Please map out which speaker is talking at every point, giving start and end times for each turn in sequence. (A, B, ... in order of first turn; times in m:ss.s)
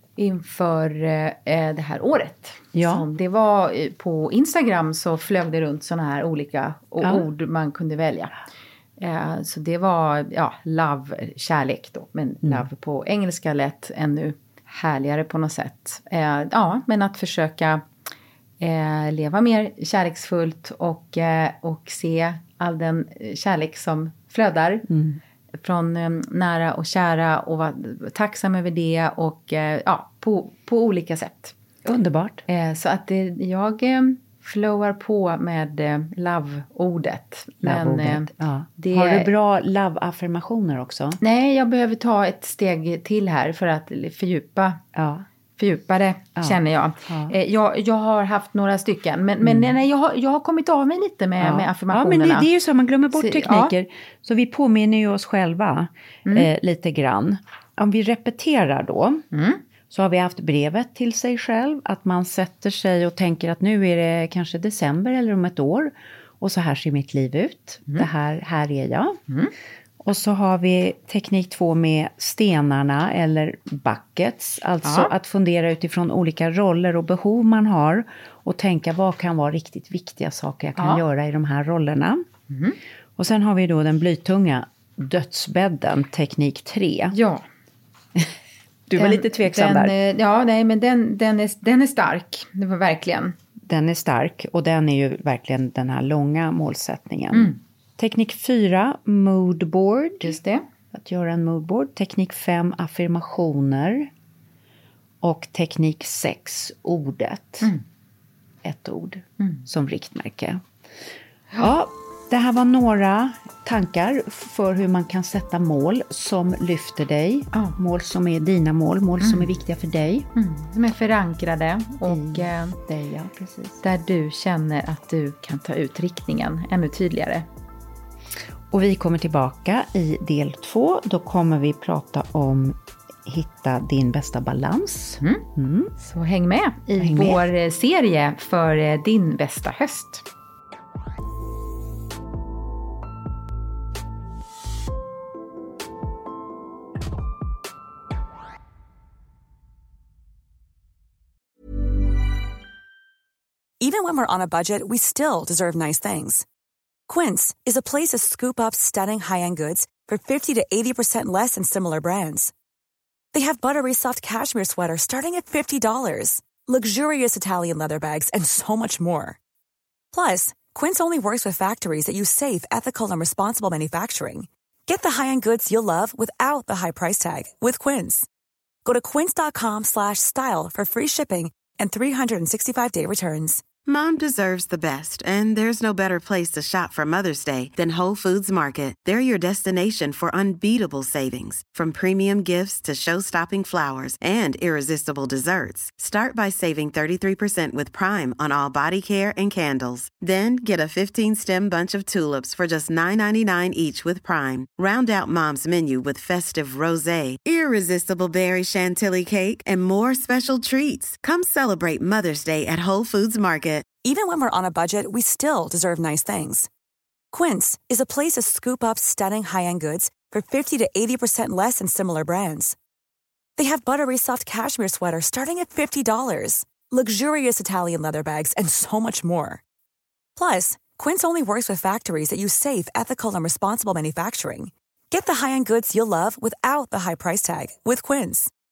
0:00.2-0:08.3 A
0:02.7-0:03.1 B
0:07.0-0:07.3 B
0:09.0-0:17.8 A
0:18.6-0:24.9 A
0:24.9-0:25.2 B
0:25.6-0:31.6 A
0:31.8-0:32.4 B
0:32.5-0:39.3 A
0:37.6-0:41.2 B
0:41.2-0:44.8 A
0:45.0-0:45.2 B
0:45.6-0:52.5 A
0:46.4-0:47.4 B
0:49.4-0:49.7 B
0:51.4-0:59.3 B
0:53.1-0:53.7 A
0:59.3-0:59.6 A
0:59.9-1:09.2 B
1:10.0-1:22.2 B
1:14.8-1:15.1 A
1:20.8-1:21.0 A
1:22.5-1:22.8 A
1:23.2-1:27.2 B
1:27.1-1:27.4 A
1:28.9-1:29.9 B
1:28.9-1:33.4 A
1:33.6-1:40.4 B
1:37.3-1:37.6 A
1:40.2-1:40.6 A
1:40.9-1:44.1 B
1:45.2-1:47.7 B
1:48.6-1:50.6 B
1:49.4-1:49.6 A
1:51.6-2:00.3 B
1:59.2-1:59.5 A
2:00.4-2:02.8 A
2:02.0-2:03.8 B
2:03.8-2:07.5 A
2:08.7-2:15.9 B
2:16.0-2:20.2 A
2:17.0-2:17.4 B
2:33.8-2:36.4 C
2:37.1-2:42.5 C
2:43.3-2:49.4 C
2:50.1-2:58.3 C
2:58.8-3:03.6 C
3:03.9-3:33.9 D
3:34.0-3:36.7 C
3:37.3-3:42.8 C
3:43.6-3:49.6 C
3:50.4-3:58.5 C